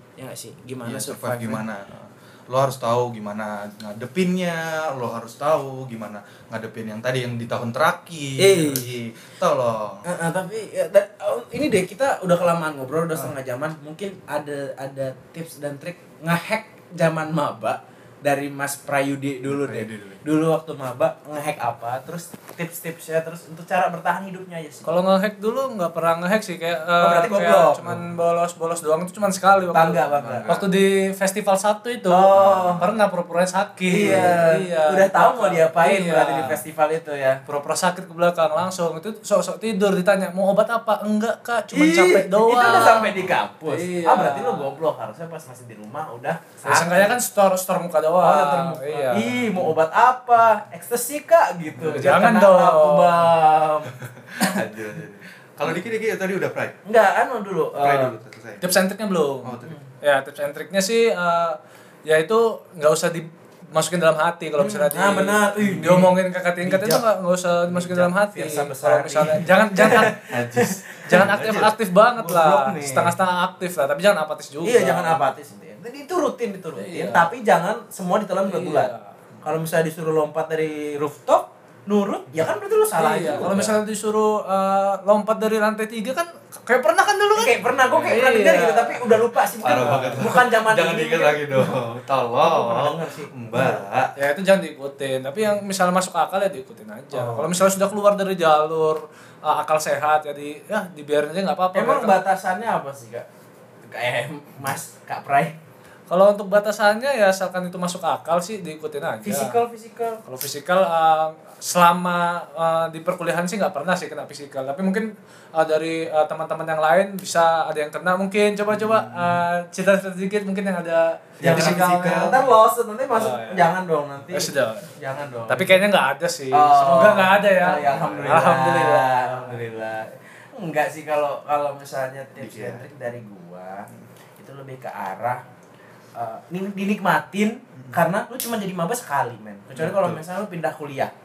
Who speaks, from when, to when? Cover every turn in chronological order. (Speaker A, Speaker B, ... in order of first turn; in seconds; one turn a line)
Speaker A: 0.2-1.6
Speaker B: 0.8-10.1
Speaker A: 8.4-9.0
Speaker A: 10.1-24.9
Speaker B: 19.5-20.2
Speaker C: 24.9-36.6
Speaker A: 27.0-28.1
Speaker A: 29.7-30.6
Speaker B: 30.2-30.6
Speaker A: 32.1-32.8
Speaker B: 32.4-32.9
Speaker A: 33.9-37.4
Speaker C: 37.5-44.7
Speaker A: 41.7-47.2
Speaker C: 46.7-49.3
Speaker A: 48.2-54.7
Speaker B: 51.8-52.1
Speaker C: 51.9-53.3
Speaker B: 53.9-56.8
Speaker A: 56.9-58.1
Speaker B: 57.7-58.6
Speaker C: 58.6-70.2
Speaker B: 59.4-59.8
Speaker A: 64.6-67.0
Speaker A: 67.7-71.3
Speaker B: 70.2-71.7
Speaker C: 71.1-75.2
Speaker A: 72.2-73.2
Speaker A: 74.6-78.9
Speaker C: 76.8-77.3
Speaker C: 78.5-79.0
Speaker A: 79.4-83.7
Speaker C: 83.0-89.2
Speaker B: 83.4-83.8
Speaker A: 87.3-91.8
Speaker B: 87.8-88.2
Speaker B: 89.6-94.1
Speaker C: 89.8-90.1
Speaker A: 92.4-93.9
Speaker C: 94.2-102.2
Speaker A: 97.1-97.5
Speaker A: 101.7-103.3
Speaker A: 103.9-105.6
Speaker C: 106.1-109.6
Speaker A: 109.2-110.2
Speaker C: 110.2-122.5
Speaker B: 118.7-119.4
Speaker B: 121.4-122.4
Speaker A: 121.4-125.8
Speaker C: 123.2-123.7
Speaker C: 124.3-124.9
Speaker C: 125.5-129.3
Speaker A: 126.5-135.4
Speaker B: 127.7-128.4
Speaker B: 132.4-132.9
Speaker A: 136.2-141.1
Speaker B: 139.7-140.2